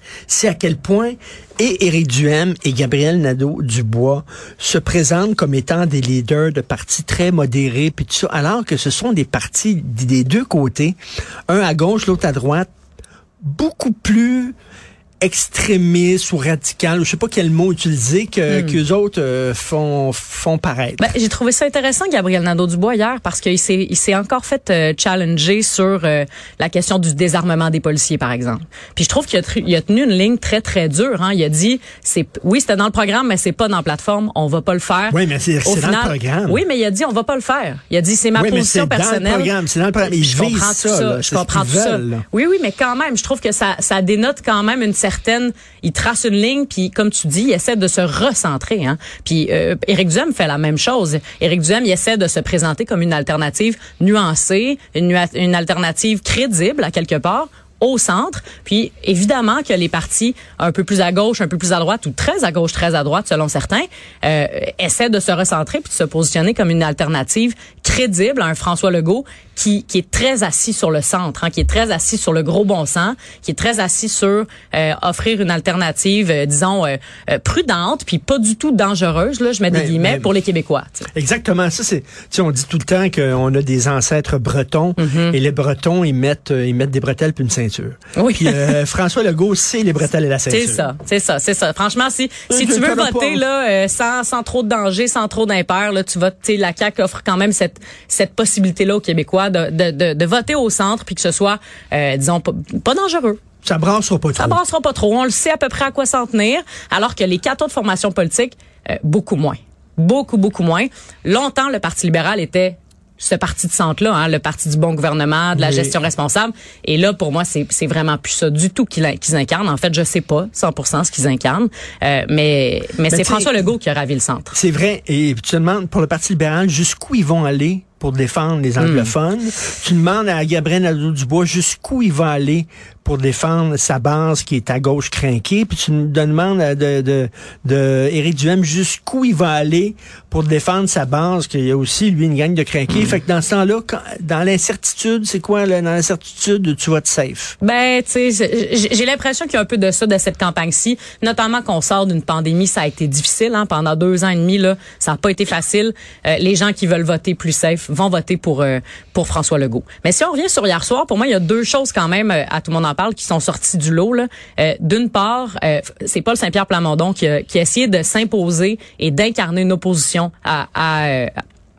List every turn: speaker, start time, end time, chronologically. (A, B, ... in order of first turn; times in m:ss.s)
0:00.3-0:11.0 A
0:11.5-0:12.7 A
0:13.4-0:14.5 A
0:15.2-0:21.1 A
0:18.5-0:18.8 B
0:21.0-1:21.1 B
0:35.1-0:36.6 A
0:38.4-0:42.2 A
1:19.7-1:20.3 A
1:21.2-1:30.9 A
1:25.0-1:25.4 B
1:28.2-1:28.8 B
1:30.5-1:43.4 B
1:32.5-1:33.4 A
1:43.6-1:44.6 A
1:44.4-2:04.6 B
1:55.6-1:56.0 A
2:03.1-2:03.5 A
2:04.5-2:27.6 A
2:08.8-2:09.1 B
2:27.6-2:51.4 B